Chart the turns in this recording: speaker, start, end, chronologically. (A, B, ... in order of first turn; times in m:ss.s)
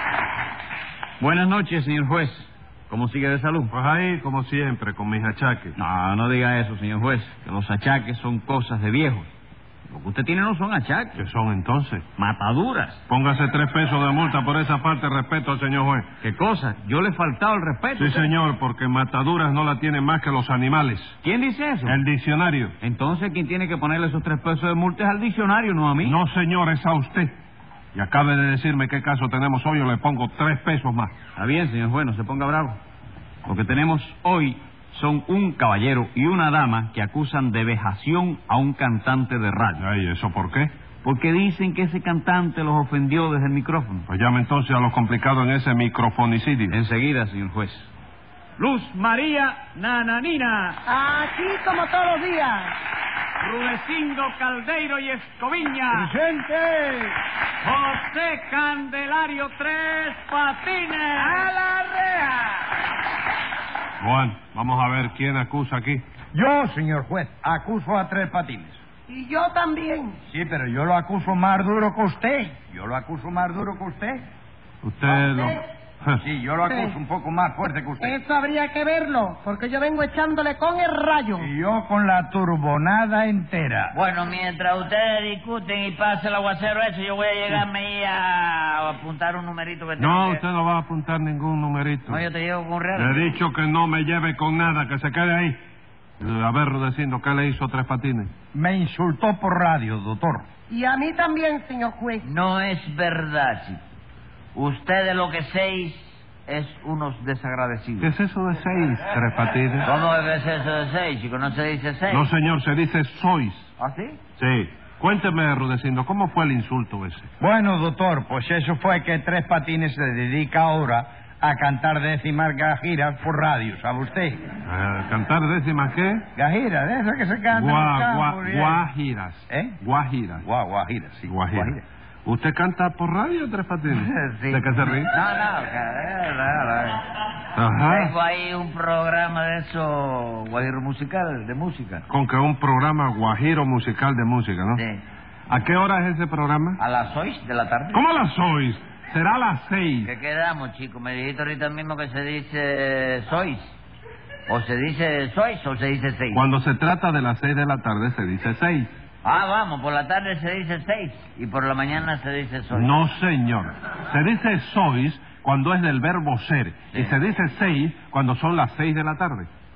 0:01.2-0:03.7 A
0:03.7-0:05.8 B
0:05.8-0:09.3 A
0:10.1-0:11.1 A
0:11.1-0:12.0 B
0:12.2-0:13.0 A
0:13.1-0:16.1 B
0:16.2-0:18.3 A
0:17.9-0:21.2 B
0:21.2-0:22.0 A
0:21.8-0:22.7 B
0:22.8-0:26.1 A
0:26.0-0:27.3 B
0:27.9-0:31.2 B
0:31.3-0:32.8 A
0:33.4-0:39.8 A
0:39.8-0:40.7 B
0:41.0-0:44.0 A
0:44.1-0:46.8 B
0:46.7-0:47.9 A
0:48.6-0:50.8 A
0:50.9-0:52.7 C
0:53.4-0:55.9 A
0:55.9-0:57.1 D
0:57.6-1:01.3 A
1:00.8-1:01.4 B
1:04.0-1:06.0 B
1:06.3-1:08.8 D
1:09.1-1:10.2 C
1:10.2-1:14.2 D
1:14.8-1:16.2 B
1:15.1-1:15.6 C
1:16.2-1:18.2 D
1:16.6-1:16.9 C
1:18.0-1:21.5 C
1:21.4-1:23.9 D
1:23.9-1:30.4 E
1:30.0-1:32.2 B
1:32.1-1:33.3 E
1:32.9-1:35.6 B
1:36.2-1:38.3 B
1:38.5-1:40.4 D
1:40.7-1:42.2 C
1:42.2-1:43.8 E
1:44.5-1:48.1 E
1:48.0-1:49.8 B
1:49.8-1:52.3 E
1:52.1-1:53.7 B
1:53.8-1:54.2 E
1:54.4-1:57.3 B
1:57.4-2:04.4 D
2:04.6-2:06.2 B
2:06.4-2:08.8 D
2:07.5-2:10.4 B
2:09.5-2:09.8 D
2:10.4-2:11.8 D
2:11.3-2:15.1 B
2:13.9-2:17.0 E
2:17.6-2:18.1 B
2:17.8-2:22.0 E
2:22.1-2:24.8 B
2:24.8-2:25.0 E
2:25.5-2:26.8 B
2:26.8-2:28.0 E
2:27.9-2:30.1 B
2:30.0-2:33.8 E
2:34.5-2:36.4 E
2:36.3-2:38.9 B
2:39.2-2:42.9 E
2:42.7-2:49.5 B
2:46.9-2:47.2 E